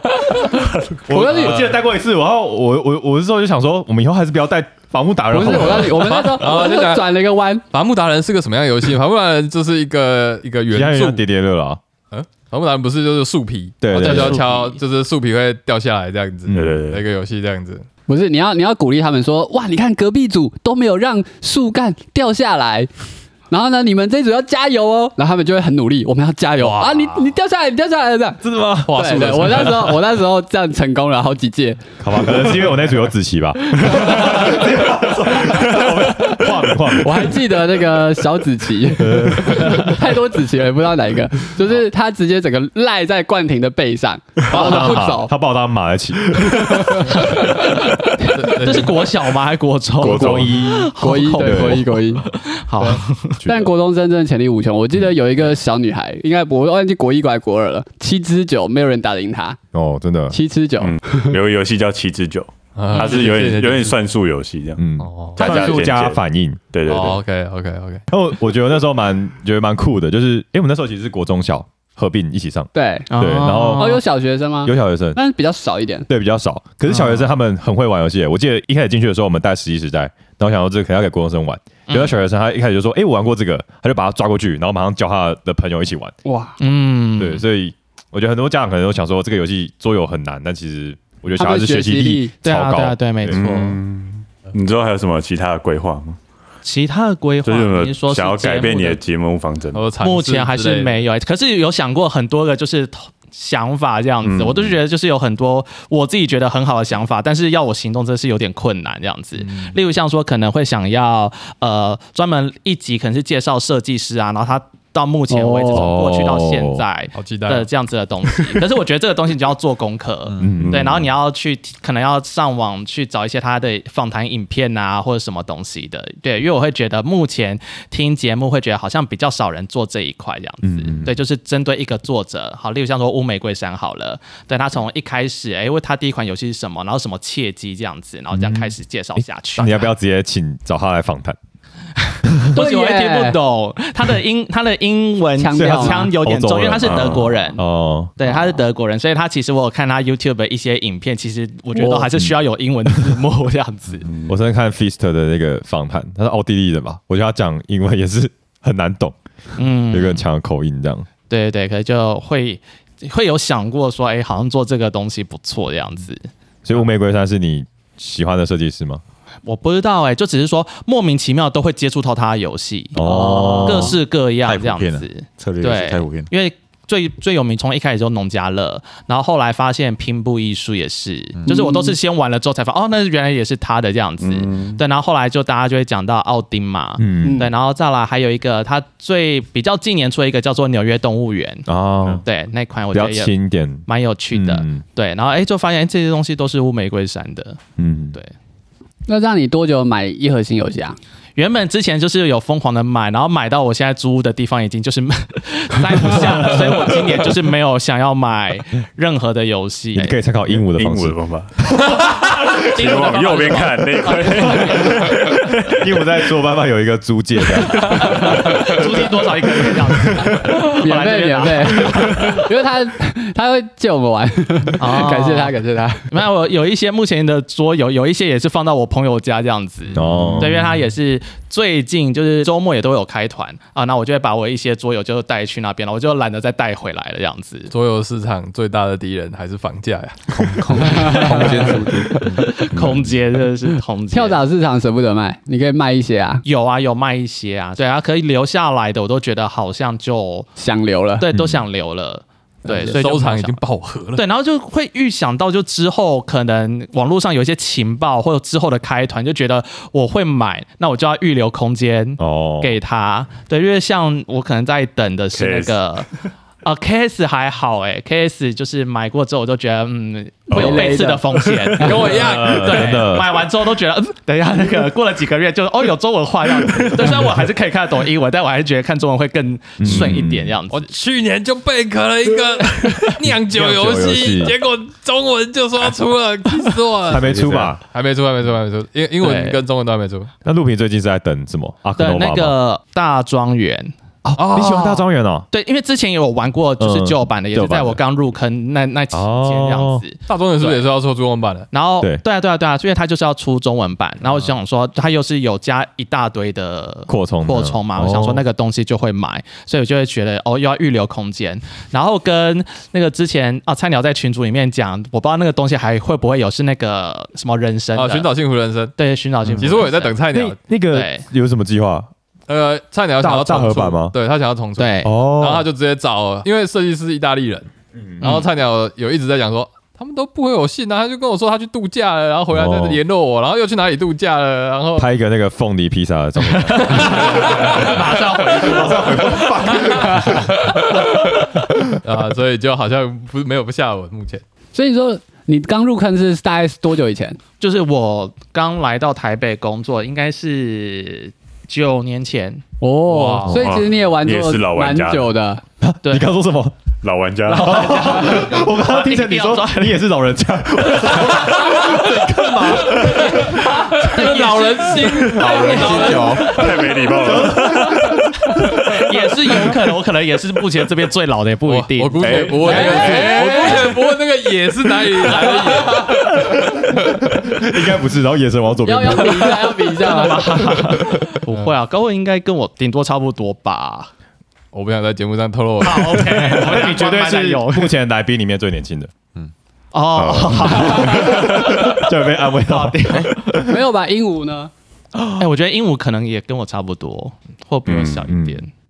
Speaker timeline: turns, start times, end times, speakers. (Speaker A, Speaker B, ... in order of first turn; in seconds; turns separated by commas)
Speaker A: 1.1-6.2, Speaker B: 1.1-1.6, Speaker B: 5.3-7.6, Speaker C: 5.8-7.2, Speaker C: 7.7-11.2, Speaker A: 10.7-11.8, Speaker C: 12.1-17.9, Speaker A: 13.8-14.4, Speaker D: 13.9-14.8, Speaker A: 16.5-16.8, Speaker E: 16.5-17.0, Speaker B: 18.1-22.9, Speaker B: 23.5-31.8, Speaker C: 26.6-27.0, Speaker A: 28.4-29.0, Speaker C: 28.9-30.0, Speaker A: 32.0-37.4, Speaker B: 33.9-34.6, Speaker B: 35.5-36.5, Speaker B: 37.0-45.3, Speaker A: 39.0-40.0, Speaker A: 44.5-47.0, Speaker B: 46.5-47.0, Speaker D: 47.1-53.4, Speaker C: 48.3-49.1, Speaker A: 50.0-52.0, Speaker B: 50.0-52.3, Speaker B: 52.8-59.6, Speaker A: 53.4-53.7, Speaker A: 59.7-60.4, Speaker B: 60.3-61.3, Speaker E: 60.8-66.2, Speaker C: 62.8-64.0, Speaker A: 64.8-66.6, Speaker C: 65.0-65.5, Speaker D: 65.4-65.8, Speaker E: 66.7-67.2, Speaker C: 66.9-68.0, Speaker A: 68.1-74.0, Speaker B: 72.7-73.1, Speaker D: 73.1-74.0, Speaker B: 73.8-76.1, Speaker A: 74.6-75.2, Speaker A: 76.1-86.1, Speaker D: 76.9-77.3, Speaker D: 81.9-82.2, Speaker B: 86.2-86.6, Speaker D: 86.6-87.4, Speaker A: 87.2-93.4, Speaker B: 91.3-92.3, Speaker D: 92.5-93.8, Speaker E: 93.3-96.2, Speaker D: 96.6-99.0, Speaker E: 97.4-99.9, Speaker C: 99.7-101.1, Speaker D: 100.0-139.9, Speaker E: 104.2-104.8, Speaker C: 109.4-109.7, Speaker B: 115.3-115.9, Speaker A: 115.7-116.8, Speaker C: 117.2-117.7, Speaker A: 120.4-121.0, Speaker E: 120.6-121.1, Speaker A: 130.6-131.2, Speaker A: 138.3-138.8, Speaker A: 139.6-141.4, Speaker D: 142.1-147.6, Speaker B: 142.6-143.4, Speaker B: 145.4-146.2, Speaker A: 145.5-148.2, Speaker E: 146.8-147.3, Speaker D: 148.2-154.1, Speaker B: 151.7-152.1, Speaker E: 154.1-154.4, Speaker A: 154.3-159.2, Speaker D: 159.6-160.2, Speaker A: 159.9-161.1, Speaker D: 161.3-166.3, Speaker A: 166.7-169.0, Speaker D: 169.4-173.0, Speaker A: 172.9-174.0, Speaker B: 173.0-174.0, Speaker D: 173.6-191.7, Speaker F: 174.4-176.3, Speaker B: 181.5-182.0, Speaker E: 184.2-184.8, Speaker A: 187.0-187.4, Speaker B: 187.2-187.5, Speaker A: 191.7-192.2, Speaker D: 192.2-193.3, Speaker A: 192.9-194.8, Speaker D: 193.9-197.6, Speaker A: 197.8-198.2, Speaker B: 199.1-201.0, Speaker D: 201.4-210.2, Speaker A: 206.2-206.8, Speaker A: 209.9-211.2, Speaker E: 210.5-215.8, Speaker D: 212.4-215.2, Speaker A: 214.7-218.7, Speaker D: 217.8-222.5, Speaker B: 220.7-226.1, Speaker D: 224.8-225.5, Speaker D: 226.1-237.7, Speaker A: 229.9-230.6, Speaker C: 237.7-240.2, Speaker F: 240.3-242.5, Speaker B: 240.8-242.4, Speaker D: 241.1-244.4, Speaker E: 242.7-243.1, Speaker B: 244.1-246.4, Speaker D: 246.4-250.5, Speaker B: 250.6-251.3, Speaker D: 251.2-253.6, Speaker A: 251.3-251.7, Speaker C: 252.7-254.2, Speaker D: 254.2-266.1, Speaker A: 262.2-262.8, Speaker E: 265.3-265.8, Speaker D: 266.6-280.9, Speaker B: 270.5-271.3, Speaker E: 270.5-270.9, Speaker C: 271.8-273.0, Speaker A: 272.0-273.5, Speaker A: 279.8-280.6, Speaker E: 279.9-280.3, Speaker C: 280.7-287.3, Speaker A: 283.5-284.6, Speaker A: 287.1-287.8, Speaker F: 287.2-287.7, Speaker C: 287.9-290.3, Speaker D: 289.2-289.6, Speaker A: 290.5-292.6, Speaker D: 292.0-300.8, Speaker A: 294.2-295.5, Speaker A: 296.8-298.0, Speaker A: 299.1-300.0, Speaker C: 300.3-301.7, Speaker D: 301.7-318.3, Speaker A: 307.1-308.4, Speaker C: 317.9-319.0, Speaker D: 319.0-320.1, Speaker A: 319.4-319.8, Speaker C: 319.6-320.6, Speaker A: 320.3-322.1, Speaker D: 320.9-321.2, Speaker C: 322.5-335.1, Speaker A: 323.2-324.1, Speaker D: 324.8-325.1, Speaker A: 325.0-325.7, Speaker A: 328.0-328.3, Speaker D: 328.2-328.5, Speaker A: 332.5-333.0, Speaker A: 335.0-340.6, Speaker D: 336.6-339.8, Speaker C: 336.8-338.1, Speaker C: 339.4-344.4, Speaker B: 340.0-340.3, Speaker B: 344.7-347.4, Speaker D: 347.6-353.6, Speaker B: 352.8-355.6, Speaker E: 353.4-355.3, Speaker A: 355.8-356.8, Speaker E: 357.0-357.8, Speaker D: 357.5-360.0, Speaker A: 357.5-363.8, Speaker D: 360.9-368.1, Speaker C: 361.7-362.0, Speaker C: 362.8-366.8, Speaker F: 365.3-366.6, Speaker E: 366.5-367.9, Speaker A: 367.1-369.0, Speaker D: 368.7-373.9, Speaker C: 371.7-377.1, Speaker E: 372.2-373.8, Speaker B: 372.6-374.0, Speaker D: 375.3-376.0, Speaker B: 375.4-376.1, Speaker A: 376.1-379.7, Speaker B: 378.8-380.8, Speaker D: 379.9-384.1, Speaker C: 384.7-386.6, Speaker D: 385.8-387.9, Speaker A: 386.3-389.1, Speaker D: 389.9-393.6, Speaker E: 390.2-392.0, Speaker A: 390.9-393.8, Speaker B: 393.6-394.7, Speaker D: 395.4-398.7, Speaker E: 397.9-398.3, Speaker A: 398.3-398.6